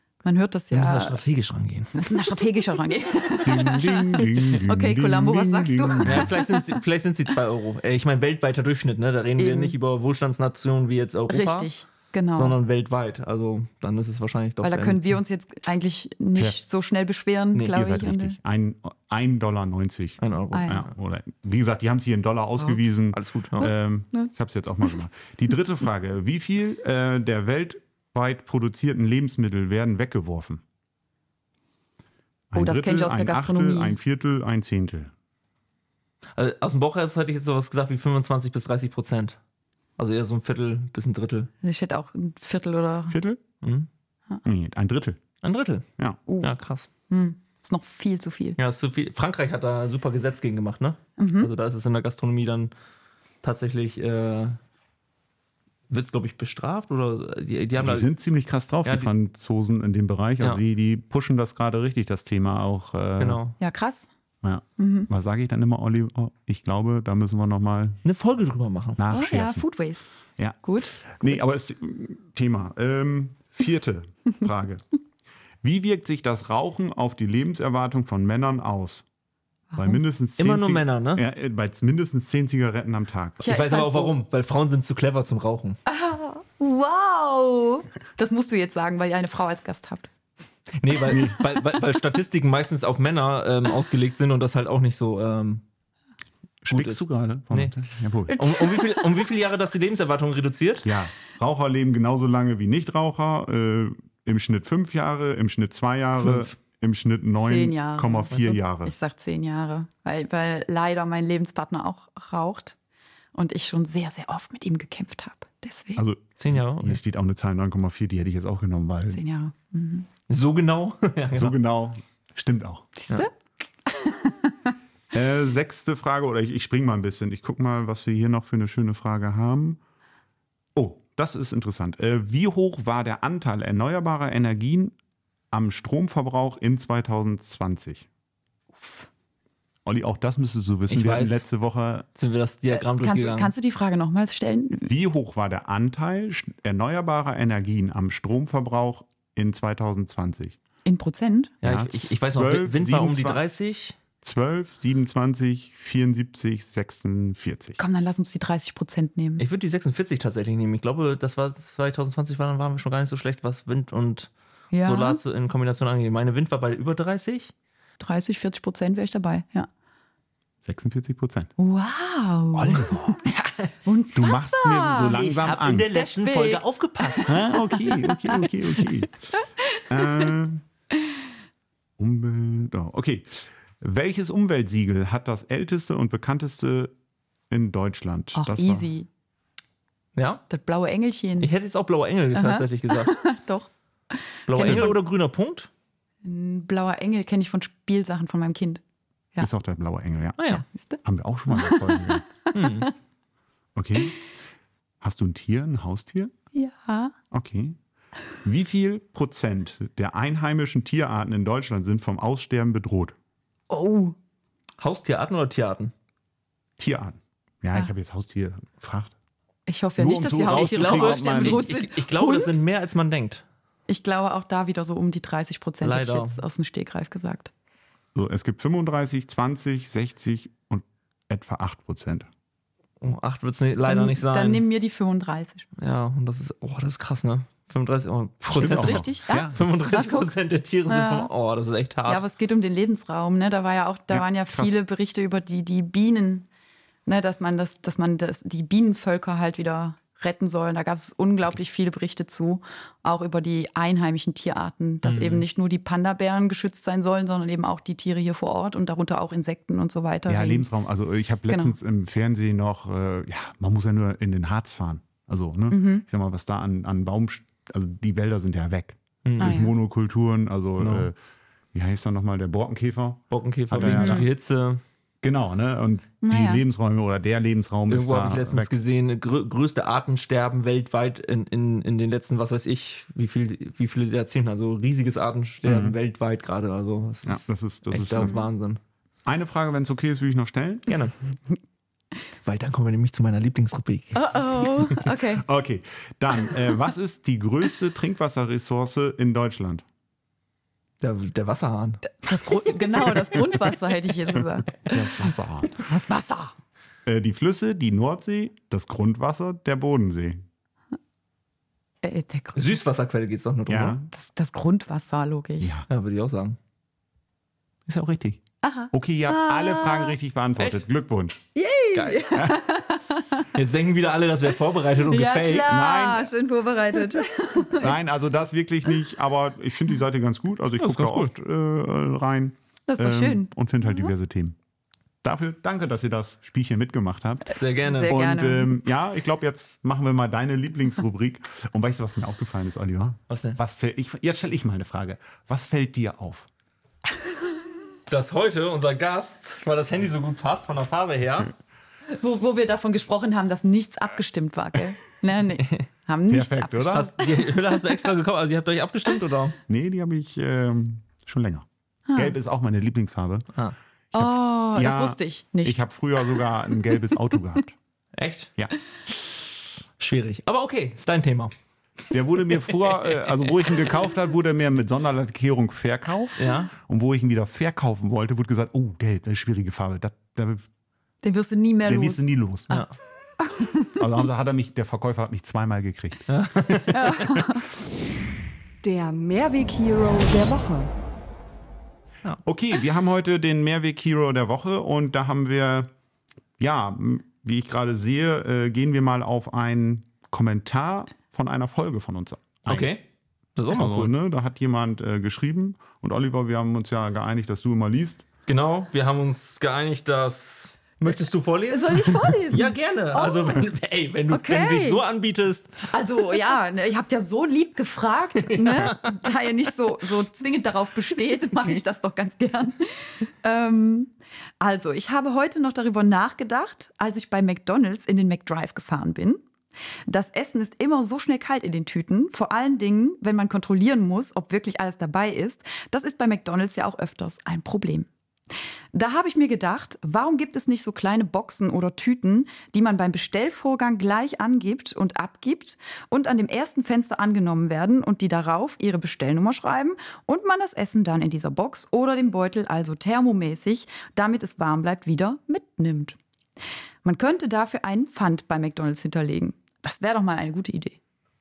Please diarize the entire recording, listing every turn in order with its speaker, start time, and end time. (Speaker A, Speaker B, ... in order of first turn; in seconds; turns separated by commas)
Speaker A: 0.2-1.2, Speaker B: 0.7-1.9, Speaker A: 1.9-6.8, Speaker C: 3.4-6.3, Speaker B: 6.0-11.7, Speaker A: 9.4-9.8, Speaker A: 11.3-12.6, Speaker B: 12.3-15.0, Speaker A: 14.6-18.4, Speaker C: 17.7-30.6, Speaker B: 20.2-20.8, Speaker A: 20.5-20.9, Speaker B: 23.1-23.7, Speaker A: 23.6-24.3, Speaker C: 32.5-35.1, Speaker A: 32.6-34.0, Speaker B: 36.4-39.4, Speaker B: 40.0-41.5, Speaker A: 41.6-43.2, Speaker C: 43.1-43.4, Speaker B: 43.6-43.9, Speaker C: 44.4-45.2, Speaker B: 45.4-45.9, Speaker B: 46.4-46.9, Speaker A: 47.1-48.6, Speaker B: 48.6-52.7, Speaker A: 51.2-51.5, Speaker B: 53.4-54.6, Speaker B: 55.9-58.1, Speaker C: 57.8-63.4, Speaker B: 58.9-59.1, Speaker B: 63.2-63.6, Speaker A: 63.6-64.1, Speaker C: 64.4-68.0, Speaker A: 64.8-65.1, Speaker B: 68.0-69.0, Speaker C: 69.0-69.7, Speaker A: 69.1-70.1, Speaker C: 70.4-74.8, Speaker A: 70.6-71.3, Speaker C: 75.6-79.0, Speaker A: 79.7-80.0, Speaker C: 79.8-83.4, Speaker B: 80.4-81.2, Speaker A: 83.4-84.2, Speaker B: 83.4-85.8, Speaker A: 85.9-90.1, Speaker B: 90.8-95.6, Speaker C: 91.1-91.4, Speaker C: 96.6-98.4, Speaker B: 96.7-100.9, Speaker A: 98.3-99.2, Speaker C: 100.8-108.9, Speaker B: 106.2-106.5, Speaker A: 107.4-112.8, Speaker A: 113.3-116.0, Speaker C: 116.0-119.2, Speaker B: 116.4-117.0, Speaker A: 119.1-120.1, Speaker B: 120.3-121.5, Speaker C: 121.3-122.9, Speaker A: 123.0-123.3, Speaker A: 123.9-124.7, Speaker C: 125.1-129.8, Speaker C: 130.8-134.9, Speaker C: 135.5-138.1, Speaker A: 138.8-139.1, Speaker C: 139.8-142.1, Speaker B: 140.9-141.4, Speaker B: 142.2-143.5, Speaker A: 142.7-144.9, Speaker C: 144.9-150.6, Speaker A: 150.8-151.5, Speaker B: 151.6-154.0, Speaker C: 151.6-153.4, Speaker C: 154.2-157.8, Speaker A: 157.8-159.4, Speaker B: 159.4-164.3, Speaker A: 164.7-165.2, Speaker B: 164.8-167.5, Speaker A: 168.0-169.7, Speaker C: 170.7-171.5, Speaker A: 171.6-175.2, Speaker B: 172.6-173.5, Speaker C: 174.1-175.9, Speaker B: 175.1-177.4, Speaker A: 175.9-178.5, Speaker C: 177.3-179.1, Speaker A: 179.3-180.3, Speaker C: 179.9-180.6, Speaker C: 182.0-186.9, Speaker C: 187.5-188.9, Speaker A: 188.3-189.1, Speaker B: 190.2-190.4, Speaker A: 190.5-191.5, Speaker B: 191.4-193.2, Speaker A: 192.3-195.0, Speaker B: 194.5-195.7, Speaker C: 194.6-194.9, Speaker A: 196.2-198.8, Speaker C: 199.4-200.4, Speaker B: 200.4-200.6, Speaker A: 200.5-202.9, Speaker C: 201.0-202.2, Speaker B: 202.5-202.9, Speaker C: 203.8-204.2, Speaker C: 205.0-206.3, Speaker A: 206.5-207.2, Speaker C: 207.3-207.8, Speaker C: 208.4-213.2, Speaker A: 213.7-214.2, Speaker B: 214.8-215.9, Speaker C: 216.8-219.1, Speaker A: 219.7-222.6, Speaker C: 220.0-221.7, Speaker B: 220.4-223.4, Speaker A: 223.9-227.5, Speaker B: 225.8-226.4, Speaker C: 228.2-232.3, Speaker B: 233.0-234.7, Speaker A: 233.8-235.7, Speaker B: 235.8-242.2, Speaker A: 238.5-240.3, Speaker C: 238.6-239.6, Speaker A: 240.9-241.3, Speaker A: 242.1-246.5, Speaker C: 244.1-244.8, Speaker A: 247.1-260.7, Speaker B: 255.0-255.4, Speaker C: 260.3-271.1, Speaker A: 261.5-261.8, Speaker A: 265.7-266.0, Speaker B: 269.2-269.6, Speaker A: 269.4-269.7, Speaker B: 270.8-271.1, Speaker C: 271.7-274.3, Speaker B: 273.3-274.8, Speaker A: 273.9-274.3, Speaker C: 275.2-278.7, Speaker A: 276.2-276.6, Speaker B: 277.9-288.8, Speaker C: 285.6-286.0, Speaker C: 287.2-288.4, Speaker C: 289.3-290.9, Speaker B: 290.9-291.1, Speaker B: 292.4-294.3, Speaker A: 294.1-295.4, Speaker C: 294.9-299.8, Speaker B: 301.0-302.2, Speaker A: 302.1-306.5, Speaker C: 304.9-305.8, Speaker C: 307.1-310.4, Speaker A: 312.0-312.8, Speaker B: 312.6-314.0, Speaker C: 313.7-314.1, Speaker A: 314.1-315.7, Speaker C: 315.6-315.9, Speaker B: 315.9-316.6, Speaker C: 317.9-318.4, Speaker A: 318.6-320.1, Speaker C: 318.9-321.4, Speaker A: 321.5-323.5, Speaker B: 321.9-322.3, Speaker C: 322.3-322.6, Speaker B: 323.5-325.8, Speaker A: 325.1-327.9, Speaker C: 325.7-326.3, Speaker C: 327.7-334.6, Speaker B: 330.8-331.3, Speaker A: 332.9-334.1, Speaker C: 335.2-337.5, Speaker B: 337.6-338.2, Speaker A: 337.8-338.8, Speaker C: 338.1-346.5, Speaker B: 343.3-343.6, Speaker B: 348.1-351.5, Speaker A: 352.1-357.8, Speaker C: 356.3-357.1, Speaker B: 356.9-359.6, Speaker C: 359.7-363.5, Speaker A: 362.1-362.4, Speaker C: 364.1-367.8, Speaker A: 364.1-366.4, Speaker B: 368.2-368.5, Speaker B: 370.0-371.5, Speaker C: 372.1-380.7, Speaker B: 372.8-373.5, Speaker B: 376.4-376.7, Speaker A: 381.2-382.3, Speaker C: 381.9-382.8, Speaker A: 383.4-384.0, Speaker C: 383.9-387.6, Speaker B: 386.3-387.1, Speaker A: 386.9-387.6, Speaker D: 388.8-390.9, Speaker C: 392.4-395.9, Speaker C: 396.6-402.9, Speaker B: 402.7-403.0, Speaker B: 403.6-404.1, Speaker C: 403.7-408.2, Speaker B: 408.5-415.9, Speaker A: 411.7-413.6, Speaker A: 414.3-415.0, Speaker A: 415.9-429.4, Speaker B: 418.4-419.2, Speaker A: 430.1-438.1, Speaker A: 438.9-456.2, Speaker A: 457.0-461.0